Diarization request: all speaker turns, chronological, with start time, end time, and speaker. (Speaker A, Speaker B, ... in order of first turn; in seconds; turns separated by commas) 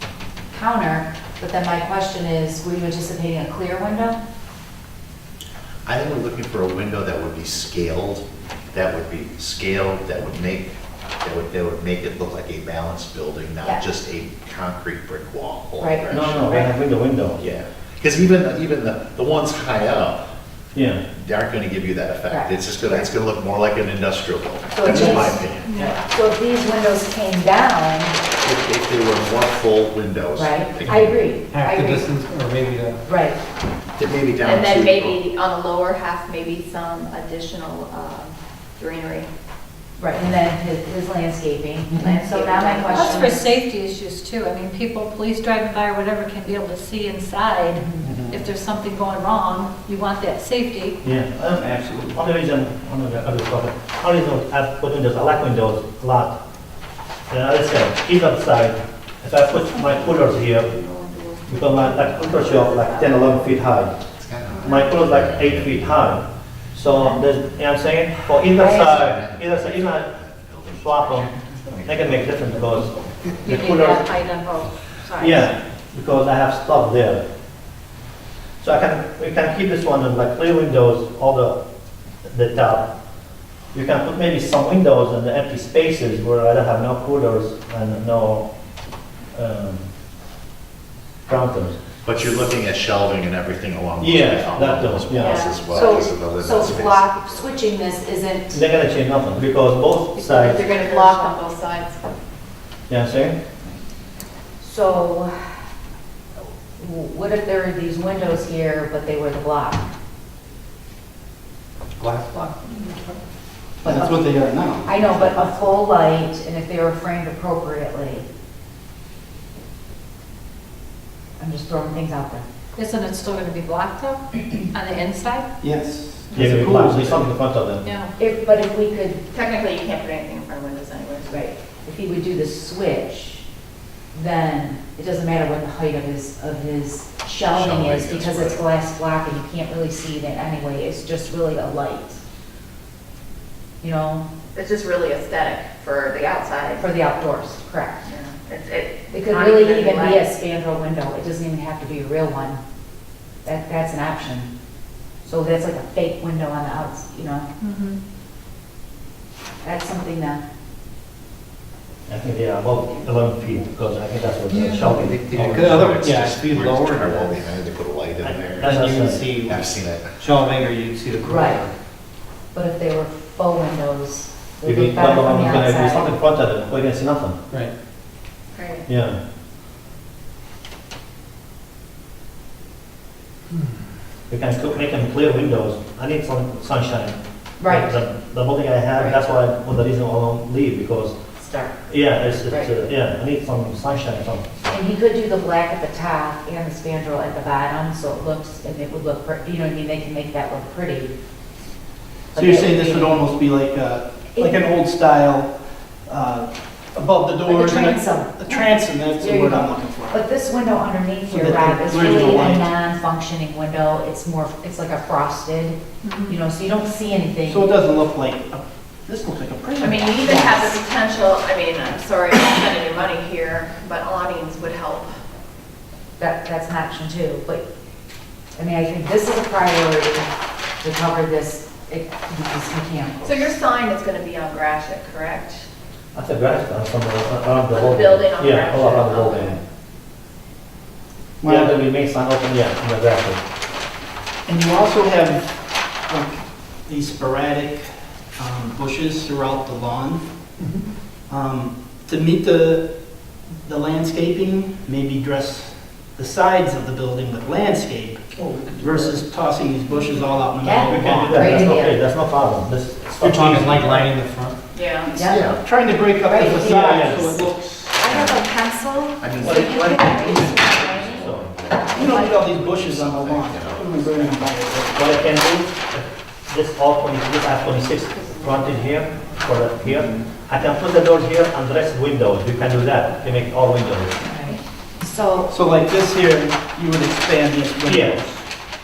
Speaker A: 0.5-4.2, Speaker B: 5.8-16.7, Speaker A: 15.8-16.6, Speaker C: 16.1-17.5, Speaker B: 17.4-20.2, Speaker C: 20.7-21.0, Speaker B: 21.1-25.7, Speaker A: 22.3-23.1, Speaker A: 24.7-28.2, Speaker D: 25.6-26.0, Speaker B: 28.4-31.2, Speaker A: 30.4-32.1, Speaker E: 31.5-33.0, Speaker A: 33.0-33.4, Speaker B: 34.0-35.3, Speaker D: 34.4-39.3, Speaker A: 40.0-43.5, Speaker D: 42.0-43.3, Speaker F: 42.9-51.0, Speaker G: 48.1-48.3, Speaker C: 51.0-56.4, Speaker G: 51.6-52.2, Speaker C: 57.3-60.7, Speaker D: 59.5-63.5, Speaker C: 61.5-64.0, Speaker B: 64.2-66.1, Speaker D: 64.5-64.9, Speaker C: 64.7-70.2, Speaker A: 66.9-67.2, Speaker B: 68.4-73.4, Speaker A: 68.6-68.9, Speaker C: 70.7-71.3, Speaker C: 71.8-72.9, Speaker F: 73.4-75.5, Speaker C: 73.4-74.1, Speaker C: 75.2-77.2, Speaker C: 78.6-81.6, Speaker C: 82.2-82.9, Speaker C: 83.7-88.5, Speaker C: 89.3-89.9, Speaker C: 91.3-91.8, Speaker B: 92.0-97.4, Speaker C: 94.0-95.6, Speaker D: 95.2-95.7, Speaker A: 95.5-98.7, Speaker C: 98.5-100.7, Speaker D: 100.2-102.1, Speaker A: 100.7-101.3, Speaker C: 102.9-103.4, Speaker A: 104.6-105.3, Speaker A: 106.8-109.9, Speaker E: 112.0-113.1, Speaker G: 113.8-115.6, Speaker A: 113.8-118.3, Speaker A: 121.4-122.5, Speaker F: 122.8-125.5, Speaker G: 125.6-127.3, Speaker C: 126.3-127.8, Speaker F: 127.8-128.1, Speaker A: 128.2-129.2, Speaker D: 129.3-131.4, Speaker A: 131.3-133.4, Speaker A: 134.1-142.2, Speaker B: 137.5-138.6, Speaker A: 143.8-144.3, Speaker D: 144.5-146.9, Speaker A: 146.8-148.0, Speaker D: 148.1-150.3, Speaker A: 149.1-152.6, Speaker A: 153.4-154.5, Speaker A: 155.2-157.5, Speaker F: 157.6-158.0, Speaker A: 159.6-160.4, Speaker C: 162.1-165.9, Speaker E: 164.6-167.6, Speaker F: 164.6-164.9, Speaker B: 165.3-168.8, Speaker C: 168.2-169.3, Speaker E: 168.6-169.7, Speaker B: 169.3-170.2, Speaker E: 170.2-171.7, Speaker A: 171.2-171.7, Speaker A: 172.5-176.1, Speaker C: 174.6-177.4, Speaker D: 178.5-178.9, Speaker C: 178.9-179.2, Speaker C: 184.3-191.2, Speaker A: 187.6-188.0, Speaker A: 191.4-192.8, Speaker C: 191.9-194.5, Speaker A: 194.7-201.1, Speaker A: 202.3-203.3, Speaker G: 202.4-205.5, Speaker G: 206.1-210.2, Speaker A: 207.5-217.7, Speaker G: 211.3-212.7, Speaker F: 216.0-216.4, Speaker G: 217.4-220.2, Speaker D: 219.8-225.2, Speaker A: 220.2-220.8, Speaker A: 226.2-227.7, Speaker A: 228.6-233.5, Speaker D: 233.2-235.6, Speaker C: 236.1-239.6, Speaker D: 237.7-239.6, Speaker G: 241.4-241.9, Speaker C: 241.4-243.4, Speaker G: 244.5-250.2, Speaker G: 251.3-258.2, Speaker G: 258.8-261.7, Speaker A: 260.6-262.0, Speaker C: 260.9-264.1, Speaker E: 263.2-264.6, Speaker D: 264.7-265.2, Speaker A: 265.1-265.6, Speaker B: 265.2-265.6, Speaker G: 265.6-268.1, Speaker A: 266.2-267.4, Speaker C: 266.8-267.4, Speaker B: 268.0-268.5, Speaker A: 268.0-272.4, Speaker D: 268.2-270.6, Speaker B: 269.2-274.5, Speaker C: 269.4-270.1, Speaker C: 271.1-271.5, Speaker G: 271.9-275.1, Speaker C: 274.9-284.2, Speaker A: 278.1-278.8, Speaker A: 284.2-285.5, Speaker G: 285.5-288.4, Speaker C: 287.9-288.2